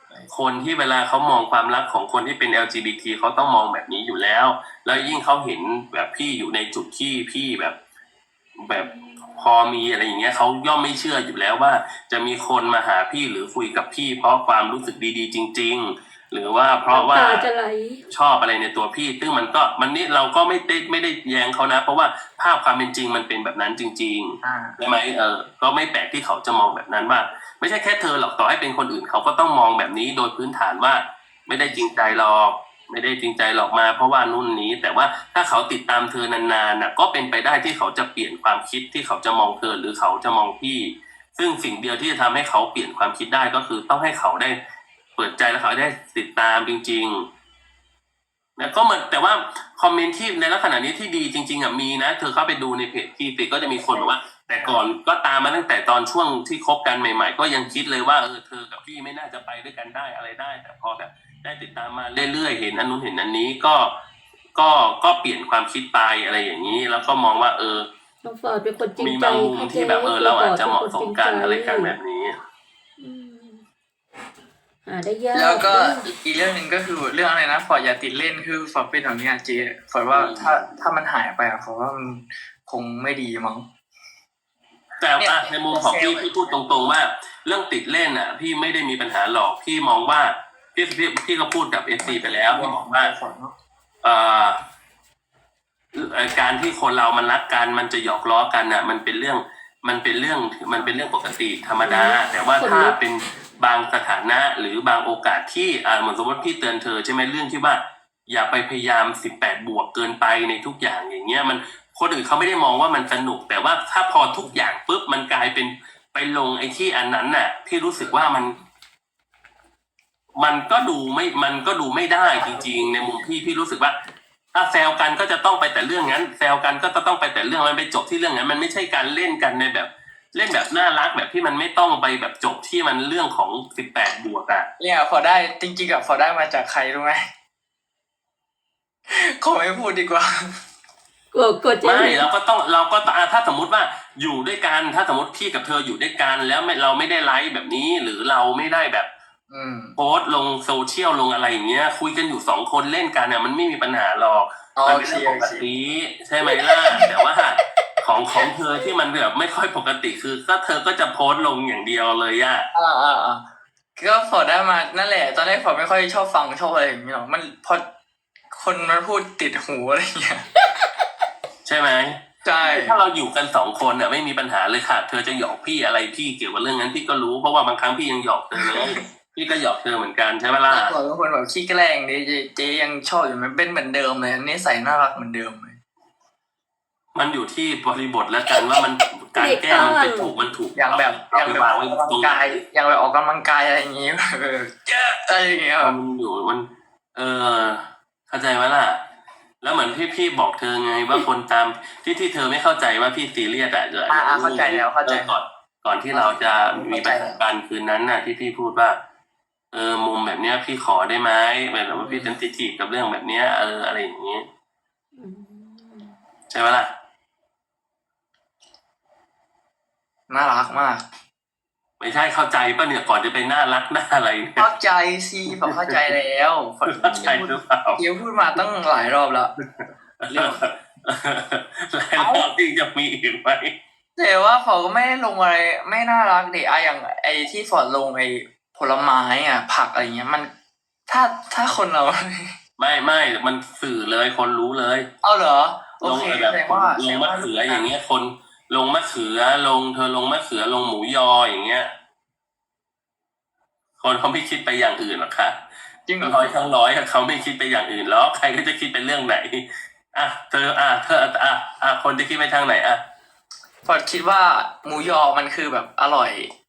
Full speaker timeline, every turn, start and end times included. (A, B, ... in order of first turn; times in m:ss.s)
0:00.3-0:07.8 A
0:08.6-0:17.5 A
0:16.9-0:18.0 B
0:18.1-0:44.6 A
0:24.4-0:24.8 C
0:31.6-0:32.1 C
0:45.2-0:47.2 A
0:48.6-1:03.9 A
0:53.7-0:54.8 C
1:04.5-1:07.9 A
1:08.2-1:12.0 B
1:09.0-1:12.4 A
1:13.0-1:13.6 B
1:14.8-1:16.1 B
1:15.3-1:23.6 C
1:20.1-1:20.6 A
1:25.0-1:33.1 A
1:25.2-1:26.6 C
1:32.0-1:33.5 C
1:34.0-1:34.6 A
1:35.9-1:58.6 A
1:41.8-1:43.0 B
2:00.4-2:04.0 A
2:04.5-2:14.7 A
2:14.8-2:17.2 C
2:19.1-2:20.5 C
2:21.3-2:22.3 B
2:21.8-2:29.1 A
2:29.5-2:30.0 C
2:30.0-2:42.6 A
2:34.8-2:35.6 C
2:36.6-2:37.2 B
2:42.7-2:43.4 C
2:44.0-2:47.8 C
2:48.5-2:50.6 C
2:51.6-3:00.9 A
2:52.4-2:53.0 C
2:58.6-2:59.0 C
3:00.7-3:05.8 C
3:07.1-3:12.6 A
3:09.4-3:10.3 B
3:10.7-3:16.0 C
3:15.8-3:19.0 A
3:19.6-3:29.0 A
3:24.1-3:25.3 C
3:26.1-3:27.4 C
3:29.7-3:34.4 A
3:35.2-3:36.2 B
3:36.5-3:36.9 A
3:40.3-3:41.0 C
3:42.0-3:44.7 A
3:44.6-3:49.5 C
3:45.5-3:46.0 A
3:46.9-3:48.0 A
3:50.2-3:53.7 A
3:50.3-3:50.7 C
3:52.2-3:52.5 C
3:54.2-4:00.5 C
4:01.1-4:02.5 C
4:02.8-4:05.1 A
4:05.2-4:07.9 C
4:06.0-4:11.9 A
4:14.0-4:15.6 A
4:16.1-4:16.5 C
4:16.2-4:23.0 A
4:23.8-4:26.5 C